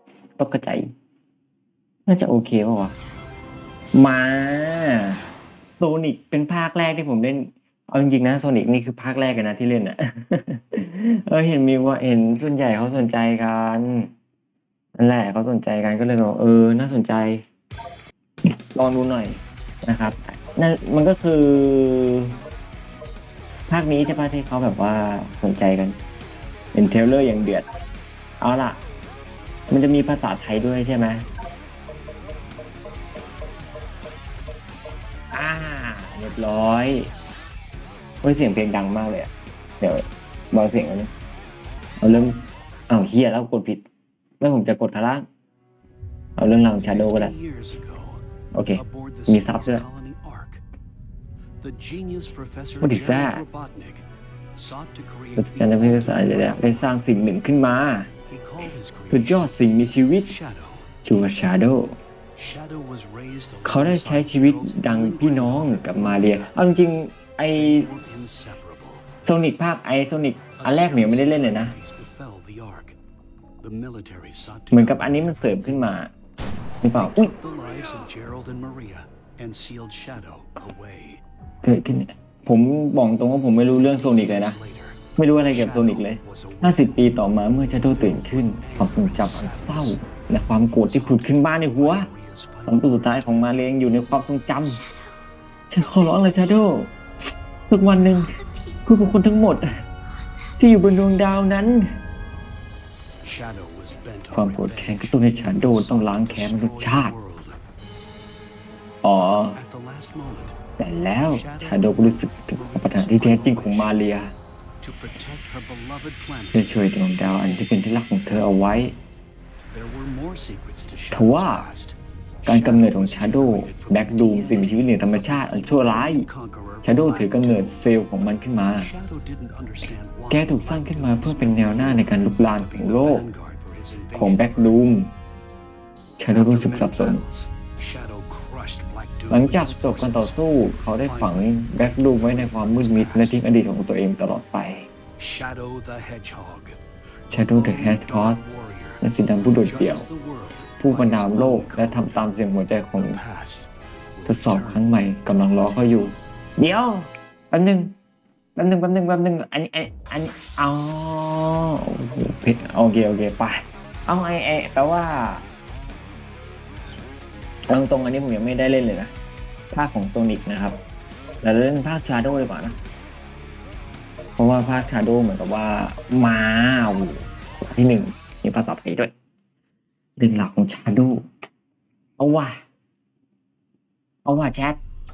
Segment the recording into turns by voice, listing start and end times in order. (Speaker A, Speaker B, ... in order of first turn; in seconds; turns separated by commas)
Speaker A: 0.4-0.9, Speaker A: 2.0-2.9, Speaker A: 3.9-5.2, Speaker A: 5.8-14.1, Speaker A: 15.0-17.4, Speaker A: 18.4-22.4, Speaker A: 23.7-26.0, Speaker A: 26.7-27.7, Speaker A: 28.4-28.8, Speaker A: 29.7-31.2, Speaker A: 35.3-37.1, Speaker A: 38.2-41.1, Speaker A: 42.0-43.8, Speaker A: 44.4-45.3, Speaker A: 46.4-47.3, Speaker B: 46.8-48.2, Speaker A: 48.5-49.8, Speaker B: 48.7-50.6, Speaker B: 51.6-57.0, Speaker A: 52.8-53.4, Speaker A: 55.4-58.1, Speaker B: 58.2-60.9, Speaker A: 59.1-60.3, Speaker A: 61.0-62.0, Speaker B: 62.4-66.6, Speaker A: 63.6-67.9, Speaker B: 67.5-69.1, Speaker A: 69.2-71.8, Speaker B: 70.5-73.0, Speaker B: 73.6-76.0, Speaker A: 74.7-76.1, Speaker A: 76.8-77.3, Speaker B: 76.9-81.2, Speaker A: 81.6-84.6, Speaker B: 83.7-87.1, Speaker A: 85.2-92.1, Speaker B: 87.8-90.0, Speaker B: 90.7-93.7, Speaker A: 92.7-94.8, Speaker A: 95.7-96.9, Speaker A: 97.7-99.7, Speaker A: 100.6-102.0, Speaker B: 103.2-107.6, Speaker A: 104.3-107.1, Speaker A: 109.0-109.6, Speaker B: 109.5-110.6, Speaker A: 110.8-114.3, Speaker B: 111.2-114.1, Speaker B: 114.8-117.7, Speaker A: 116.5-119.0, Speaker B: 119.7-127.8, Speaker A: 121.1-121.7, Speaker A: 122.5-126.3, Speaker A: 126.8-128.9, Speaker B: 128.7-135.0, Speaker A: 130.3-133.2, Speaker A: 134.1-135.1, Speaker A: 136.2-137.2, Speaker B: 136.3-143.5, Speaker A: 139.3-144.9, Speaker B: 145.2-149.0, Speaker A: 147.3-148.4, Speaker A: 149.0-150.1, Speaker B: 149.5-152.3, Speaker A: 150.8-153.2, Speaker B: 152.9-156.2, Speaker A: 154.2-157.9, Speaker A: 158.6-165.4, Speaker A: 167.7-169.1, Speaker A: 169.7-170.8, Speaker A: 171.4-172.8, Speaker A: 174.4-179.1, Speaker A: 180.2-181.2, Speaker A: 182.2-182.6, Speaker A: 184.2-184.8